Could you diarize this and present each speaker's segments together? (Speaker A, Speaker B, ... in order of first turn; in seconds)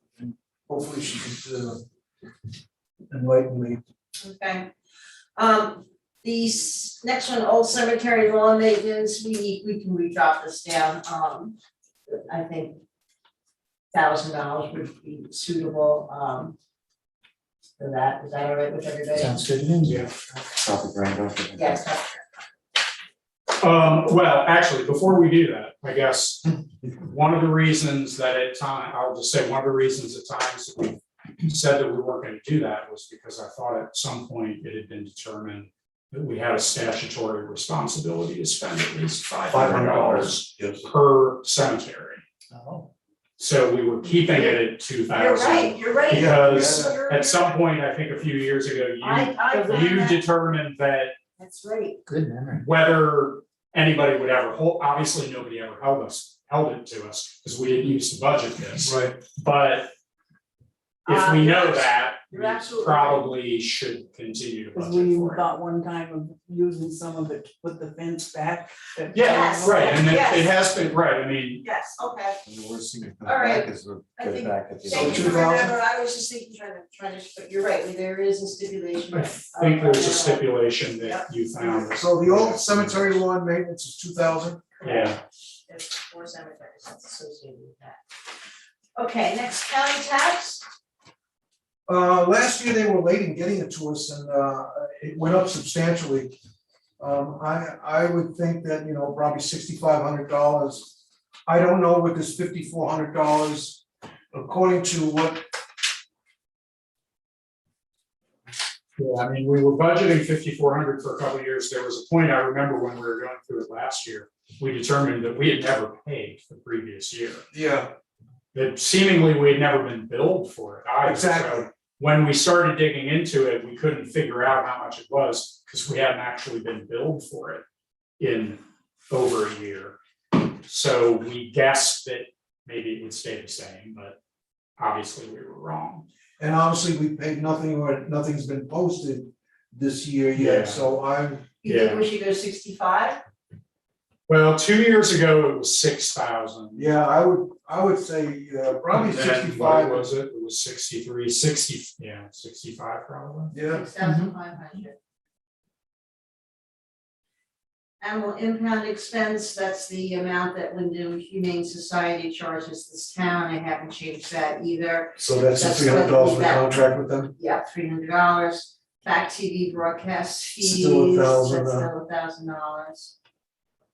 Speaker A: 0.2-1.8, 3.1-3.8, 39.5-40.8, 46.1-47.0, 58.8-59.2, 74.8-75.7, 81.9-84.7, 91.9-96.3, 97.0-101.0, 101.5-105.5, 117.5-117.9, 121.0-121.7, 136.4-141.5, 146.8-150.1, 153.5-153.9, 165.2-167.3, 170.6-171.9
Speaker B: 4.2-4.7, 5.4-11.6, 12.1-12.8, 13.9-16.5, 17.8-19.4, 21.6-22.2, 44.1-47.6, 49.0-50.2, 51.4-52.0, 61.1-63.3, 69.2-70.5, 71.6-72.4, 73.2-81.9, 84.8-88.0, 89.0-90.6, 141.6-143.2, 153.7-154.9, 158.0-166.7, 167.3-173.1
Speaker C: 19.1-20.0, 42.5-42.9, 52.1-52.7, 154.0-154.3
Speaker D: 19.8-20.1, 23.6-42.2, 43.4-51.1, 52.6-59.9, 61.1-65.5, 69.1-71.6, 79.1-82.6, 84.8-85.2, 109.0-117.5, 118.5-127.6, 128.2-130.0, 130.6-134.2, 134.8-136.1, 140.4-140.8, 141.7-142.0, 144.3-146.9, 148.9-153.6
Speaker E: 20.6-21.8, 72.5-75.5, 82.4-83.0
Speaker F: 49.5-49.8, 64.7-70.3